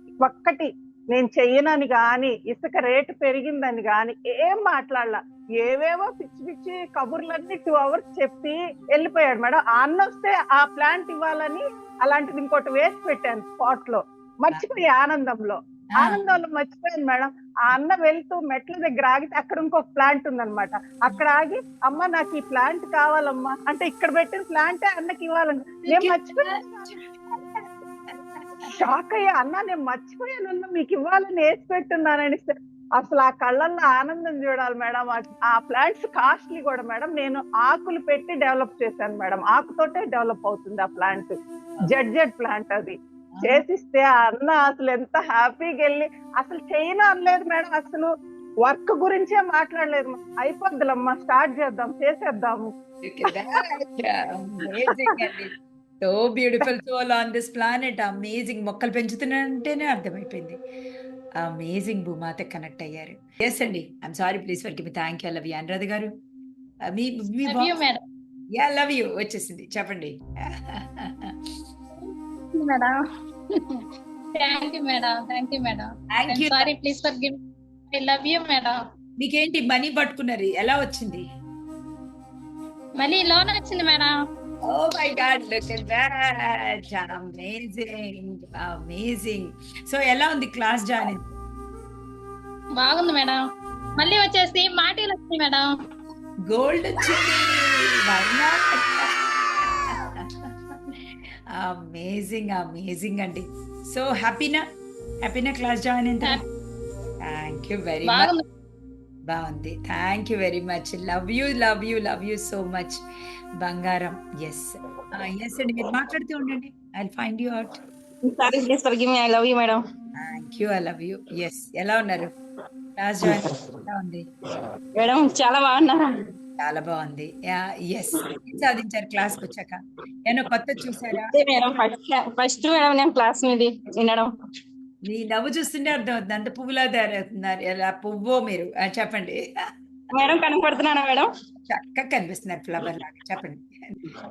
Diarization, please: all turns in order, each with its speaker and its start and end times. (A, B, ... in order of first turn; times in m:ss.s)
0:00.2-0:27.0 A
0:14.5-0:14.8 B
0:16.0-0:16.4 B
0:25.8-0:28.7 B
0:28.6-0:48.1 A
0:43.3-0:43.6 B
0:48.6-0:52.7 A
0:53.0-0:55.5 B
0:56.0-1:00.6 B
1:01.4-1:06.1 B
1:06.9-1:07.8 B
1:07.4-1:08.0 C
1:08.6-1:11.3 B
1:12.6-1:12.9 C
1:14.4-1:17.3 C
1:16.1-1:16.7 B
1:17.9-1:18.8 C
1:19.2-1:21.2 B
1:23.0-1:24.1 C
1:24.7-1:31.2 B
1:32.8-1:33.4 C
1:34.0-1:35.7 C
1:36.5-1:37.5 B
1:38.1-1:38.9 B
1:41.6-1:44.6 B
1:45.2-1:46.4 B
1:47.2-1:48.3 B
1:49.3-1:53.0 B
1:53.6-1:57.8 B
1:58.3-1:59.8 D
2:00.2-2:02.3 B
2:03.0-2:04.2 B
2:05.0-2:06.2 D
2:06.6-2:11.3 B
2:11.2-2:14.3 D
2:15.1-2:19.4 B
2:20.1-2:21.2 D
2:21.7-2:24.0 B